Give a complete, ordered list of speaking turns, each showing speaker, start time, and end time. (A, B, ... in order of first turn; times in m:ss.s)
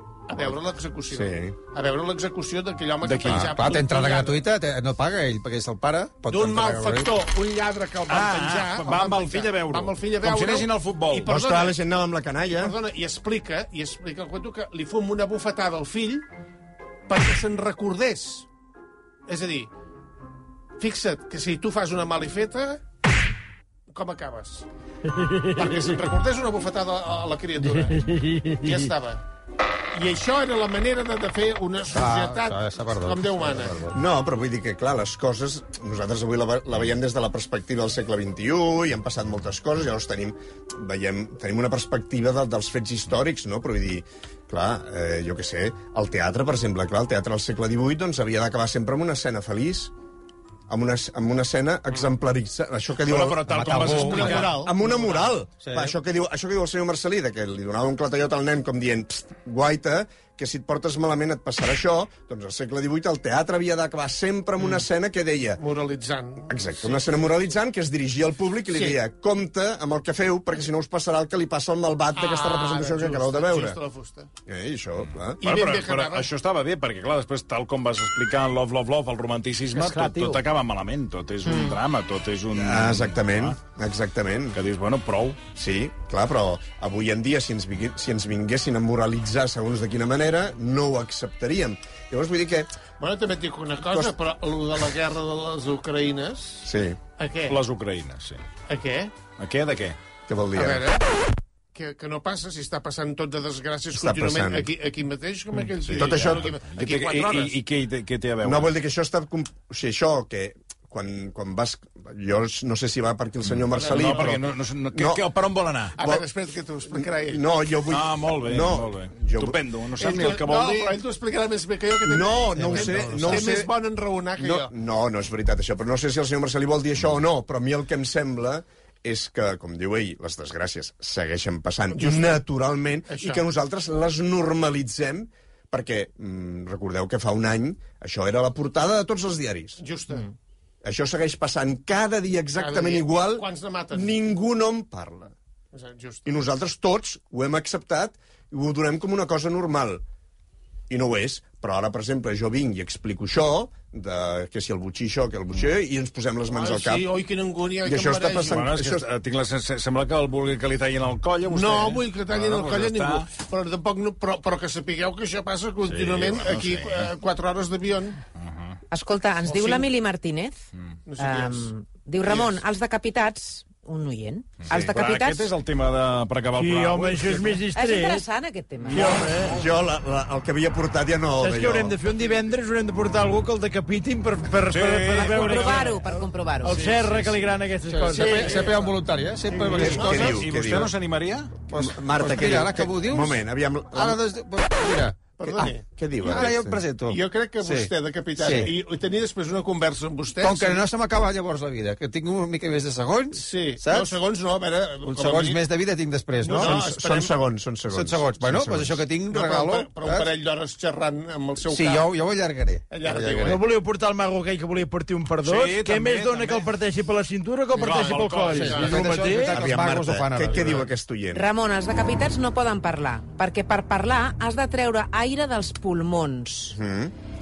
0:00.3-0:04.4 A
0:01.1-0:01.6 B
0:03.0-0:03.5 C
0:03.3-0:03.5 B
0:03.5-0:07.2 D
0:06.3-0:11.8 A
0:08.1-0:11.3 C
0:11.2-0:12.8 B
0:12.5-0:16.2 A
0:17.1-0:18.5 A
0:19.3-0:19.7 A
0:20.8-0:22.8 A
0:23.9-0:24.6 A
0:25.1-0:25.9 E
0:25.6-0:28.1 A
0:27.6-0:28.9 E
0:28.6-0:29.2 A
0:29.9-0:33.9 A
0:31.9-0:34.0 D
0:33.9-0:49.9 B
0:50.7-1:05.6 B
0:53.0-0:54.6 C
0:53.5-0:54.7 D
0:53.7-0:55.3 A
0:55.6-0:55.9 D
1:05.6-1:07.0 A
1:06.5-1:13.8 B
1:08.7-1:09.0 A
1:12.1-1:14.3 A
1:14.4-1:15.4 B
1:15.4-1:23.6 C
1:15.4-1:16.3 A
1:19.7-1:20.4 E
1:21.4-1:21.8 F
1:22.5-1:24.6 B
1:24.5-1:25.4 C
1:25.5-1:32.7 B
1:33.0-1:36.7 A
1:33.9-1:34.1 B
1:36.6-1:37.0 B
1:37.2-1:37.6 A
1:37.5-1:38.4 C
1:38.7-1:39.1 A
1:39.4-1:40.0 C
1:40.3-1:40.9 B
1:40.5-1:41.0 A
1:41.7-1:47.6 A
1:43.9-1:44.7 B
1:45.9-1:46.6 B
1:45.9-1:48.7 C
1:48.4-1:55.2 B
1:53.7-1:54.4 A
1:53.8-1:56.0 C
1:56.0-1:57.4 A
1:56.0-1:56.2 B
1:56.9-1:59.6 B
1:57.9-2:01.0 C
2:00.0-2:04.7 A
2:02.0-2:03.7 B
2:02.6-2:03.5 D
2:04.4-2:19.8 B
2:11.9-2:12.4 A
2:13.1-2:13.4 A
2:19.8-2:20.3 A
2:20.8-2:25.3 B
2:22.5-2:24.1 A
2:25.7-2:26.3 A
2:26.2-2:30.0 B
2:30.9-2:37.1 B
2:36.5-2:38.6 A
2:37.8-2:39.0 B
2:38.5-2:43.3 C
2:41.5-2:48.2 A
2:45.9-2:47.1 C
2:48.4-2:48.8 C
2:48.9-2:50.6 F
2:49.4-2:49.9 A
2:51.0-2:51.7 A
2:51.2-2:55.5 F
2:52.2-2:52.6 A
2:54.7-2:57.6 C
2:56.6-2:58.2 E
2:57.7-2:59.2 F
2:58.9-2:59.6 E
2:58.9-2:59.7 C
2:59.5-3:02.0 B
3:01.4-3:08.9 E
3:04.7-3:05.9 C
3:05.2-3:06.8 F
3:06.7-3:07.4 C
3:07.8-3:10.5 D
3:08.2-3:08.7 A
3:09.5-3:10.1 E
3:09.7-3:11.5 C
3:09.8-3:10.9 B
3:11.7-3:13.4 D
3:11.7-3:14.2 B
3:13.9-3:18.7 D
3:15.4-3:15.8 A
3:15.6-3:16.8 B
3:17.1-3:20.8 A
3:20.4-3:24.2 D
3:23.3-3:25.6 A
3:25.0-3:26.8 D
3:26.4-3:27.3 A
3:26.5-3:29.0 B
3:27.9-3:30.3 D
3:29.3-3:32.1 A
3:31.6-3:33.6 D
3:32.9-3:33.6 A
3:33.4-3:39.6 E
3:35.4-3:36.7 C
3:37.7-3:39.3 C
3:37.8-3:39.2 A
3:38.6-3:40.8 D
3:39.4-3:41.4 B
3:40.5-3:40.9 A
3:41.3-3:46.8 F
3:46.7-3:47.1 B